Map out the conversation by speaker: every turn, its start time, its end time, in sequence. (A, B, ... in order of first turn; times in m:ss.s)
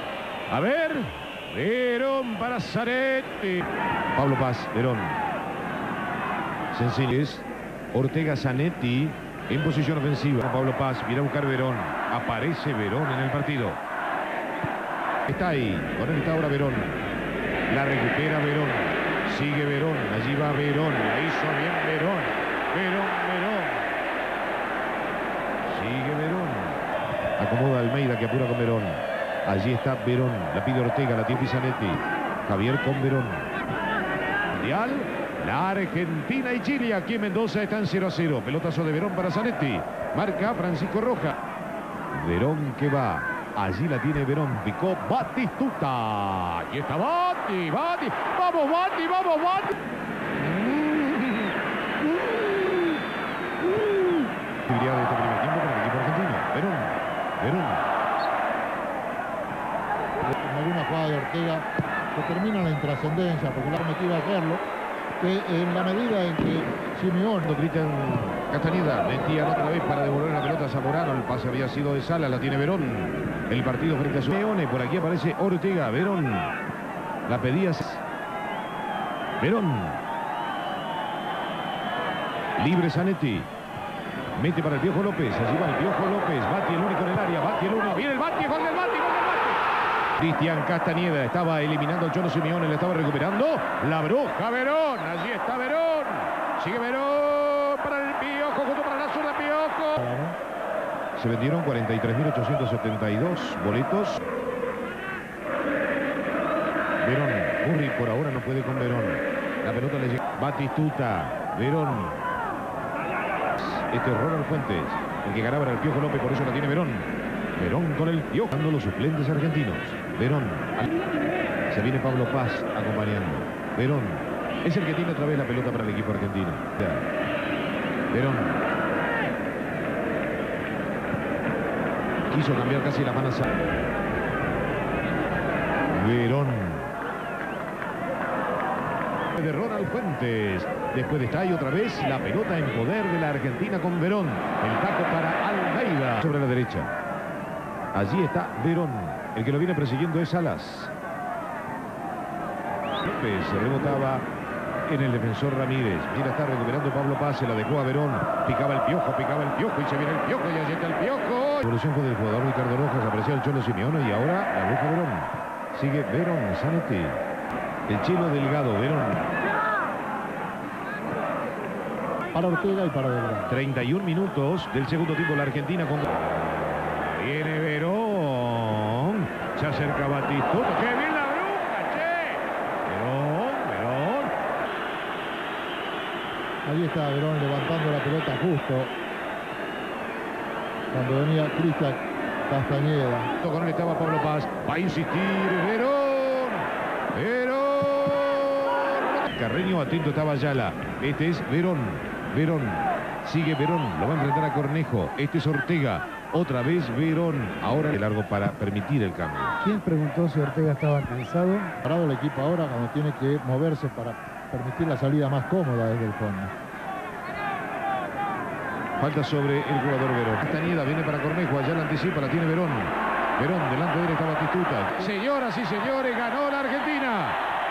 0:00.5-0:05.2 A
0:06.7-0:13.8 A
0:15.3-0:17.0 A
0:17.7-0:23.9 A
0:25.6-0:26.8 A
0:27.4-0:33.5 A
0:34.5-0:41.4 A
0:42.1-0:49.8 A
0:50.4-0:51.5 A
0:54.6-0:57.8 A
1:00.3-1:04.6 B
1:05.2-1:07.4 B
1:07.4-1:16.5 A
1:17.3-1:18.0 A
1:19.4-1:20.0 A
1:22.6-1:23.5 A
1:24.3-1:29.6 A
1:30.2-1:40.0 A
1:40.0-1:40.4 B
1:41.2-1:44.2 A
1:47.0-1:52.2 A
1:53.6-2:00.9 A
2:01.7-2:07.1 A
2:08.1-2:08.6 A
2:12.3-2:13.4 A
2:15.8-2:16.9 A
2:19.4-2:26.9 A
2:27.9-2:30.9 A
2:33.0-2:34.2 A
2:34.9-2:47.2 A
2:47.9-2:49.3 A
2:52.3-2:53.5 B
2:53.5-3:04.3 A
3:06.6-3:08.9 B
3:10.9-3:13.3 B
3:13.4-3:29.6 A
3:29.6-3:31.7 C
3:31.8-3:36.5 B
3:39.0-3:47.4 A